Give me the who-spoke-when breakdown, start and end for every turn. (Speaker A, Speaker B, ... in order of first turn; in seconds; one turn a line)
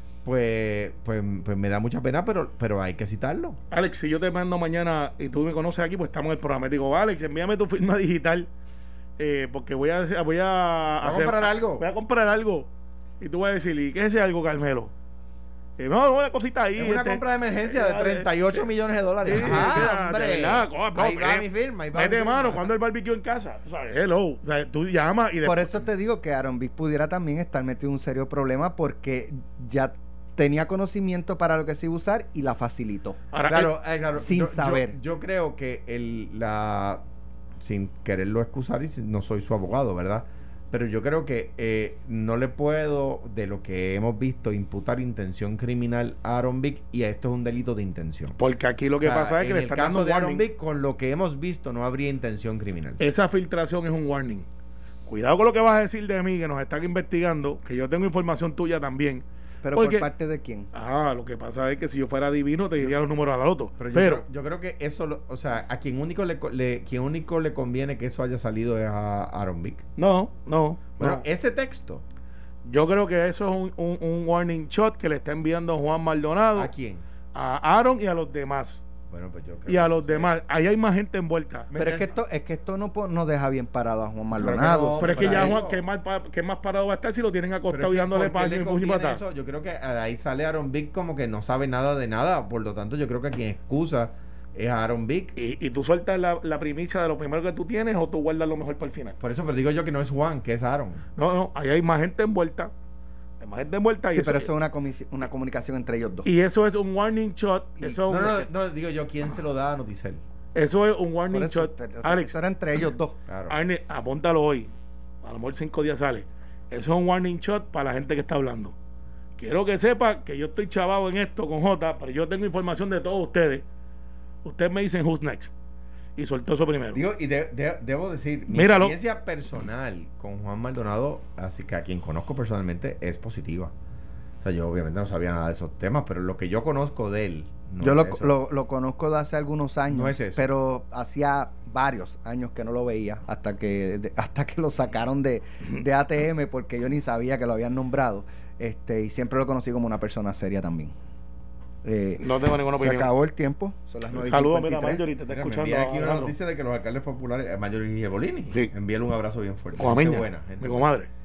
Speaker A: 0.2-3.6
Speaker B: 3.7-8.5
Speaker B: 9.2-12.7
Speaker A: 11.0-11.8
Speaker B: 13.2-14.9
Speaker B: 15.8-18.3
Speaker A: 16.8-22.7
Speaker B: 19.2-25.7
Speaker C: 25.4-33.2
Speaker B: 33.3-33.7
Speaker A: 33.5-37.0
Speaker C: 34.1-35.0
Speaker A: 37.6-48.4
Speaker B: 48.4-50.4
Speaker A: 49.0-53.0
Speaker B: 53.0-54.5
Speaker B: 55.0-60.1
Speaker C: 59.6-60.7
Speaker B: 60.7-64.2
Speaker A: 63.8-69.8
Speaker B: 70.0-71.2
Speaker A: 71.0-72.0
Speaker B: 72.6-76.7
Speaker A: 76.5-77.0
Speaker B: 77.3-78.8
Speaker A: 79.1-80.3
Speaker B: 79.7-81.7
Speaker A: 81.7-82.1
Speaker C: 81.7-85.6
Speaker A: 84.3-85.8
Speaker B: 85.0-89.2
Speaker A: 87.7-95.3
Speaker B: 95.3-99.2
Speaker A: 99.2-101.0
Speaker B: 101.2-102.7
Speaker B: 103.4-104.5
Speaker C: 104.1-106.3
Speaker B: 106.2-108.5
Speaker A: 108.1-110.2
Speaker B: 110.5-112.3
Speaker C: 111.3-113.2
Speaker A: 113.3-113.6
Speaker B: 113.5-114.7
Speaker B: 115.2-118.7
Speaker B: 119.4-123.6
Speaker B: 124.4-125.5
Speaker B: 126.2-127.0
Speaker A: 126.9-133.7
Speaker B: 128.5-129.0
Speaker A: 134.4-138.3
Speaker C: 137.8-150.9
Speaker A: 139.9-140.5
Speaker C: 151.8-155.0
Speaker B: 152.2-153.1
Speaker B: 154.1-156.3
Speaker A: 155.3-160.9
Speaker B: 159.8-161.1